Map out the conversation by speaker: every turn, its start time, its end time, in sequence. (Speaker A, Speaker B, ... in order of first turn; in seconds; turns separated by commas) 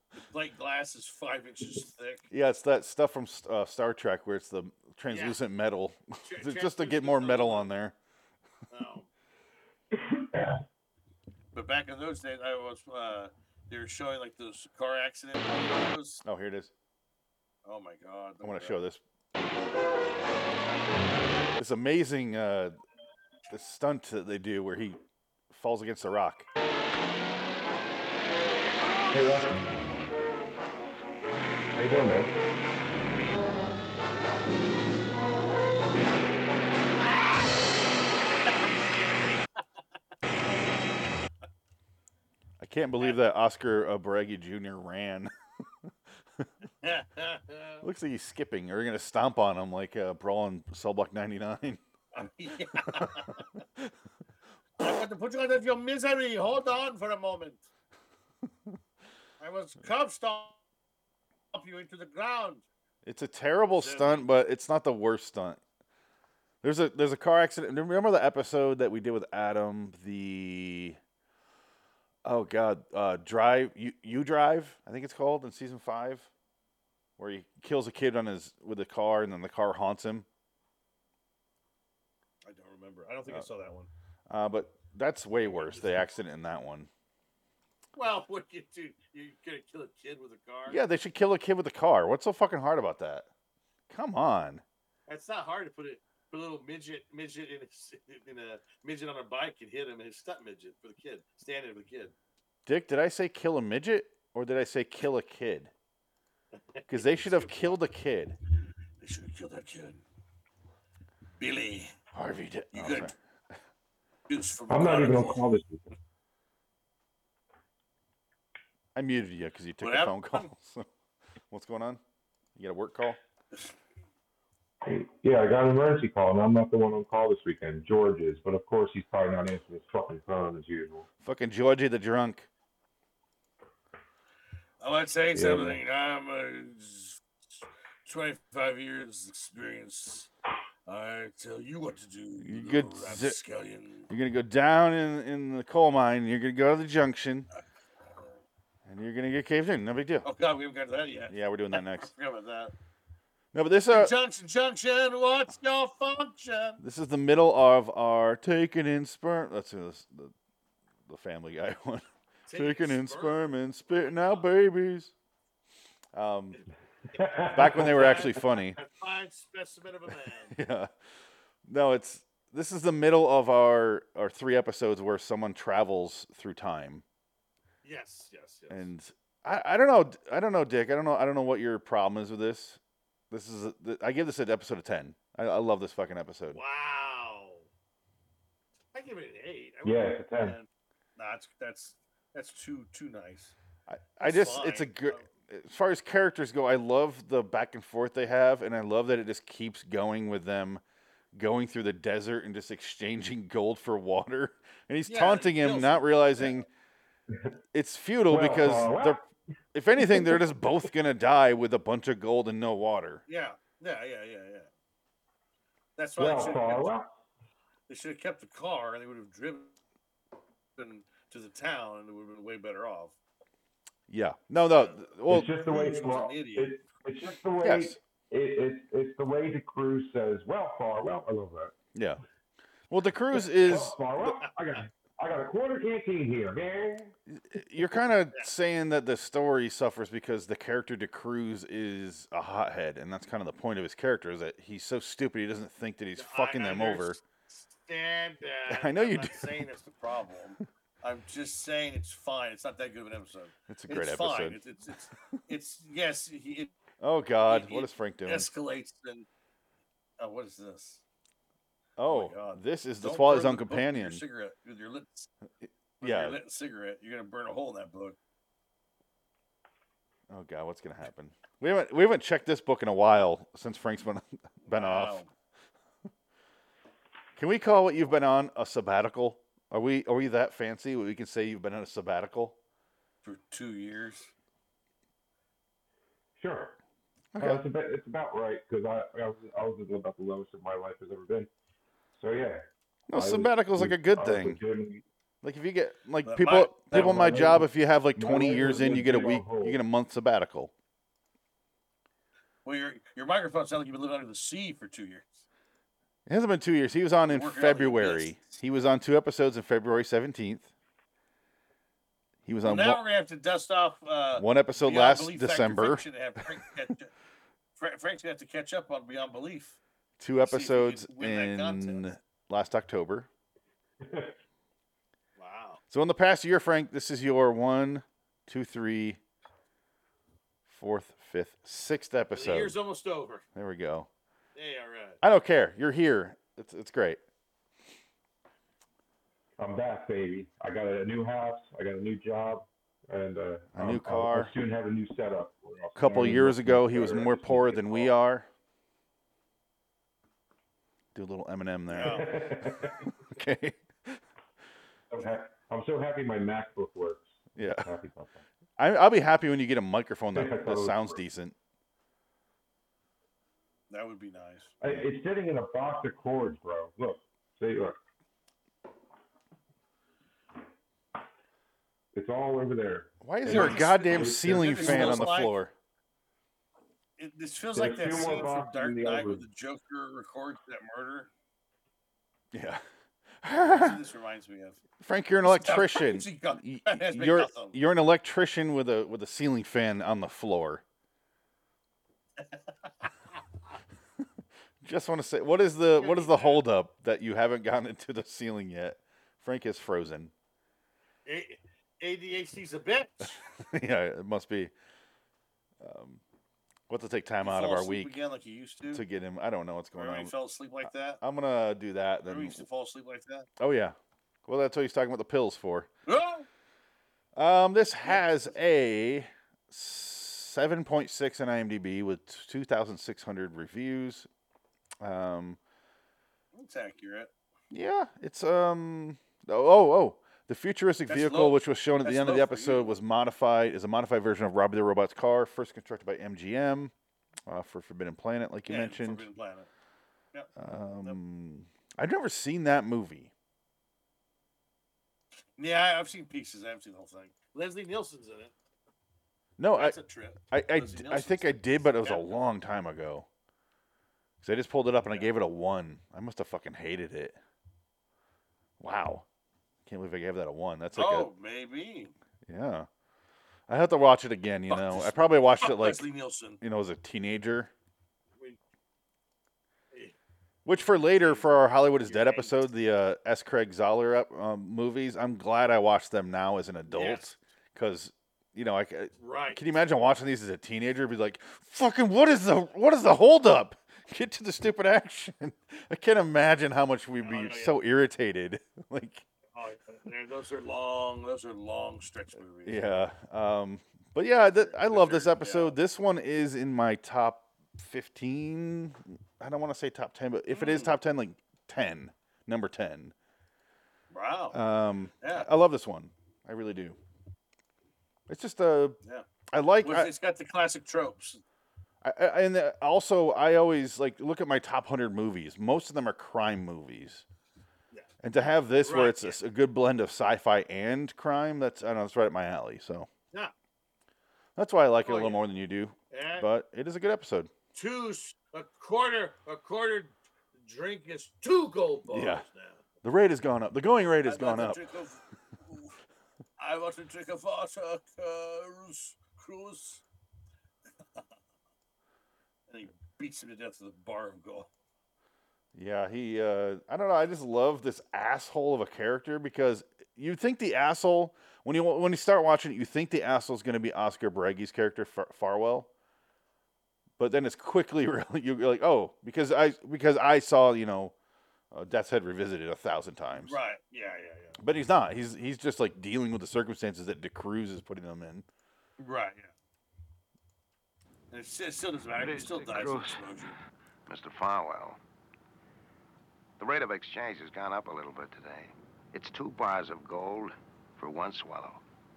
Speaker A: 0.3-2.2, Speaker B: 2.3-7.9, Speaker A: 5.1-5.4, Speaker A: 6.2-7.7, Speaker A: 8.7-9.1, Speaker C: 9.9-10.6, Speaker A: 11.5-16.2, Speaker B: 16.2-16.7, Speaker A: 17.6-18.8, Speaker B: 18.4-19.0, Speaker B: 21.6-22.8, Speaker B: 23.5-25.0, Speaker B: 25.5-26.4, Speaker C: 29.1-29.6, Speaker C: 31.7-32.3, Speaker B: 42.6-45.3, Speaker A: 46.8-47.8, Speaker B: 47.8-51.8, Speaker A: 52.1-53.5, Speaker A: 54.8-57.6, Speaker A: 59.4-60.6, Speaker A: 61.5-62.6, Speaker B: 63.0-65.6, Speaker A: 63.7-64.3, Speaker B: 66.6-71.0, Speaker B: 72.2-76.3, Speaker B: 77.2-80.2, Speaker A: 82.4-83.9, Speaker B: 84.3-86.9, Speaker A: 85.4-86.1, Speaker A: 87.9-90.8, Speaker B: 90.7-93.3, Speaker B: 93.9-94.6, Speaker A: 95.1-102.1, Speaker B: 102.7-105.7, Speaker A: 106.7-107.8, Speaker B: 106.9-108.3, Speaker A: 109.0-110.0, Speaker A: 111.4-111.9, Speaker B: 112.1-113.1, Speaker A: 112.7-113.1, Speaker A: 114.3-115.4, Speaker C: 114.7-115.9, Speaker B: 118.9-120.9, Speaker A: 119.8-120.5, Speaker B: 121.5-122.0, Speaker B: 122.5-123.2, Speaker C: 124.8-131.1, Speaker B: 131.2-132.5, Speaker A: 134.8-140.3, Speaker C: 135.3-135.8, Speaker A: 140.8-144.1, Speaker B: 142.4-143.4, Speaker B: 144.1-147.5, Speaker B: 148.8-150.3, Speaker A: 150.2-152.7, Speaker B: 151.3-152.1, Speaker B: 153.5-154.1, Speaker A: 153.9-156.8, Speaker B: 156.8-160.3, Speaker B: 161.1-165.1, Speaker A: 162.5-164.5, Speaker B: 166.1-166.6, Speaker A: 166.5-170.6, Speaker C: 167.1-167.8, Speaker B: 167.5-168.8, Speaker B: 170.5-170.9, Speaker B: 171.7-177.0, Speaker A: 177.8-178.9, Speaker B: 178.7-182.8, Speaker B: 183.3-186.6, Speaker A: 186.5-187.7, Speaker A: 188.9-193.5, Speaker C: 189.8-190.6, Speaker B: 193.9-200.8, Speaker A: 194.2-195.2, Speaker B: 201.3-206.7, Speaker A: 205.1-206.0, Speaker B: 207.7-209.2, Speaker C: 208.3-209.2, Speaker B: 209.7-213.2, Speaker C: 210.0-210.4, Speaker A: 213.3-214.7, Speaker A: 216.0-216.9, Speaker C: 216.2-217.1, Speaker A: 217.9-219.8, Speaker A: 220.8-223.2, Speaker B: 224.1-225.5, Speaker A: 224.7-225.1, Speaker C: 225.3-231.7, Speaker A: 225.7-226.8, Speaker B: 227.6-228.0, Speaker B: 231.9-232.2, Speaker B: 232.9-233.9, Speaker C: 233.6-237.1, Speaker A: 234.2-234.5, Speaker B: 237.3-247.2, Speaker A: 246.2-256.7, Speaker B: 248.7-249.5, Speaker B: 253.7-254.6, Speaker B: 257.0-258.5, Speaker A: 257.5-259.3, Speaker A: 260.2-261.0, Speaker B: 262.0-264.2, Speaker A: 262.1-265.3, Speaker B: 265.6-266.4, Speaker A: 266.0-268.2, Speaker B: 270.3-275.2, Speaker A: 274.7-275.3, Speaker B: 277.4-282.5, Speaker A: 283.2-284.3, Speaker C: 286.4-286.8, Speaker B: 287.3-287.6, Speaker C: 287.4-291.5, Speaker C: 292.1-295.0, Speaker B: 293.1-294.6, Speaker B: 295.4-300.7, Speaker A: 296.2-297.4, Speaker C: 296.9-299.8, Speaker A: 302.6-305.4, Speaker B: 306.3-310.7, Speaker A: 307.3-308.6, Speaker B: 312.4-313.0, Speaker A: 312.6-317.1, Speaker B: 314.4-316.0, Speaker A: 317.8-319.8, Speaker B: 320.2-323.3, Speaker A: 320.4-322.1, Speaker C: 324.0-324.3, Speaker A: 325.4-325.8, Speaker B: 325.9-329.2, Speaker B: 330.7-332.7, Speaker A: 332.3-333.4, Speaker B: 333.5-334.1, Speaker A: 334.5-335.2, Speaker B: 335.2-337.2, Speaker C: 339.6-348.1, Speaker B: 343.7-344.5, Speaker B: 345.9-348.5, Speaker B: 351.1-352.4, Speaker A: 351.9-352.2, Speaker C: 352.0-353.1, Speaker B: 353.3-354.2, Speaker C: 355.1-357.3, Speaker B: 357.6-357.9, Speaker C: 357.8-358.4, Speaker B: 358.8-361.5, Speaker C: 360.3-361.2, Speaker A: 363.9-364.7, Speaker C: 364.8-368.0, Speaker C: 372.1-375.3, Speaker B: 373.2-375.7, Speaker A: 373.5-375.5, Speaker A: 377.2-381.3, Speaker C: 377.7-379.4, Speaker B: 382.5-382.8, Speaker B: 383.4-384.0, Speaker A: 383.7-384.8, Speaker B: 385.0-390.8, Speaker A: 385.4-387.8, Speaker A: 392.4-393.4, Speaker B: 394.8-400.3, Speaker A: 396.0-396.6, Speaker A: 401.2-403.4, Speaker B: 403.6-404.7, Speaker B: 405.8-406.2, Speaker B: 406.9-408.1, Speaker A: 407.4-409.0, Speaker B: 408.9-410.3, Speaker A: 410.0-411.2, Speaker B: 410.8-412.6, Speaker A: 412.3-413.5, Speaker B: 413.6-413.9, Speaker B: 414.5-415.9, Speaker A: 416.1-416.5, Speaker B: 417.4-424.3, Speaker A: 418.0-418.5, Speaker B: 425.0-425.6, Speaker A: 426.5-427.3, Speaker B: 427.7-436.9, Speaker A: 431.1-432.9, Speaker B: 437.5-439.2, Speaker A: 438.7-439.7, Speaker B: 440.6-443.3, Speaker A: 445.6-448.5, Speaker B: 449.6-450.0, Speaker A: 449.7-452.5, Speaker B: 450.5-453.3, Speaker B: 454.4-457.4, Speaker B: 458.8-459.2, Speaker B: 459.9-461.3, Speaker A: 460.9-462.1, Speaker B: 462.5-462.9, Speaker B: 463.7-466.1, Speaker A: 464.7-466.6, Speaker B: 466.6-467.7, Speaker B: 470.6-489.2, Speaker A: 470.9-472.7, Speaker A: 476.9-477.2, Speaker A: 479.2-479.6, Speaker A: 487.2-487.8, Speaker A: 489.5-492.9, Speaker B: 492.6-503.1, Speaker A: 494.4-495.8, Speaker A: 500.5-500.9, Speaker A: 504.1-504.6, Speaker B: 504.5-507.0, Speaker A: 505.2-505.5, Speaker B: 508.3-509.0, Speaker B: 509.5-510.1, Speaker A: 509.8-511.4, Speaker B: 512.0-517.2, Speaker B: 518.2-523.1, Speaker A: 518.8-519.4, Speaker B: 524.6-527.5, Speaker A: 525.0-525.4, Speaker A: 526.1-526.5, Speaker A: 527.7-532.8, Speaker B: 532.1-532.4, Speaker B: 533.0-534.8, Speaker A: 534.2-536.0, Speaker A: 536.6-540.0, Speaker A: 542.7-544.7, Speaker B: 545.7-555.9, Speaker B: 557.2-561.1, Speaker B: 561.7-563.6, Speaker A: 563.4-564.6, Speaker B: 564.6-568.5, Speaker A: 569.0-569.5, Speaker A: 571.3-573.5, Speaker D: 574.1-575.0, Speaker D: 576.6-581.8